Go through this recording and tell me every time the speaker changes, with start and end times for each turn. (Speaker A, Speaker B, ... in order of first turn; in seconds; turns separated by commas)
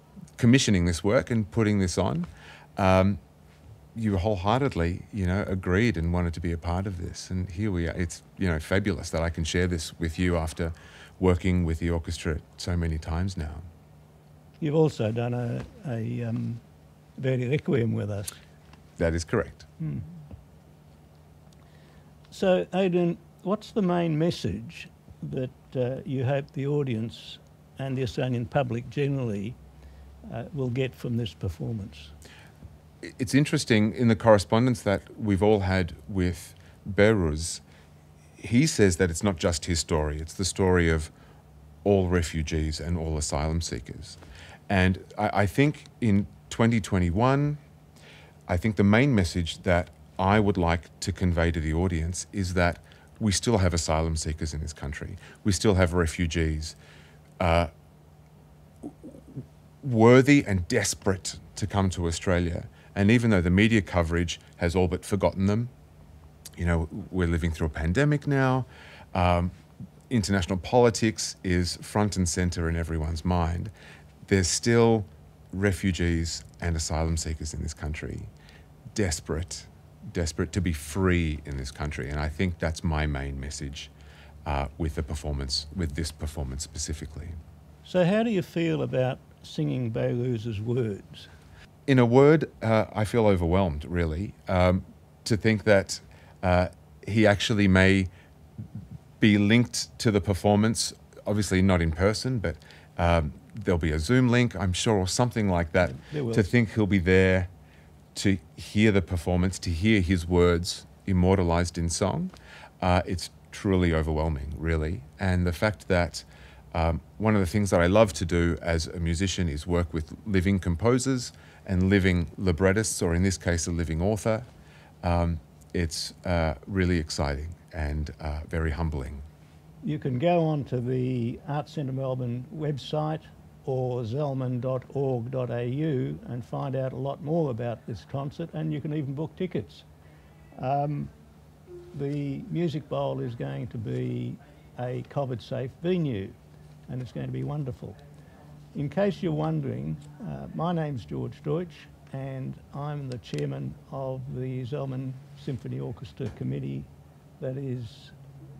Speaker A: 0.4-3.2, Speaker A: 3.9-13.6, Speaker B: 14.6-16.6, Speaker B: 17.2-18.4, Speaker A: 19.0-19.6, Speaker B: 19.8-20.1, Speaker B: 22.3-29.6, Speaker B: 30.2-32.1, Speaker A: 33.0-37.6, Speaker A: 38.4-41.1, Speaker A: 41.8-47.6, Speaker A: 48.5-56.8, Speaker A: 57.4-57.7, Speaker A: 59.8-65.7, Speaker A: 66.6-69.5, Speaker A: 70.1-73.7, Speaker A: 74.2-78.3, Speaker A: 78.9-83.9, Speaker A: 84.4-87.4, Speaker B: 87.8-91.3, Speaker A: 91.9-98.1, Speaker A: 99.2-107.5, Speaker B: 105.9-106.5, Speaker A: 108.1-124.5, Speaker A: 125.0-129.2, Speaker B: 129.8-139.8, Speaker B: 140.6-141.1, Speaker B: 141.9-146.3, Speaker B: 146.9-148.0, Speaker B: 148.7-156.9, Speaker B: 157.4-158.2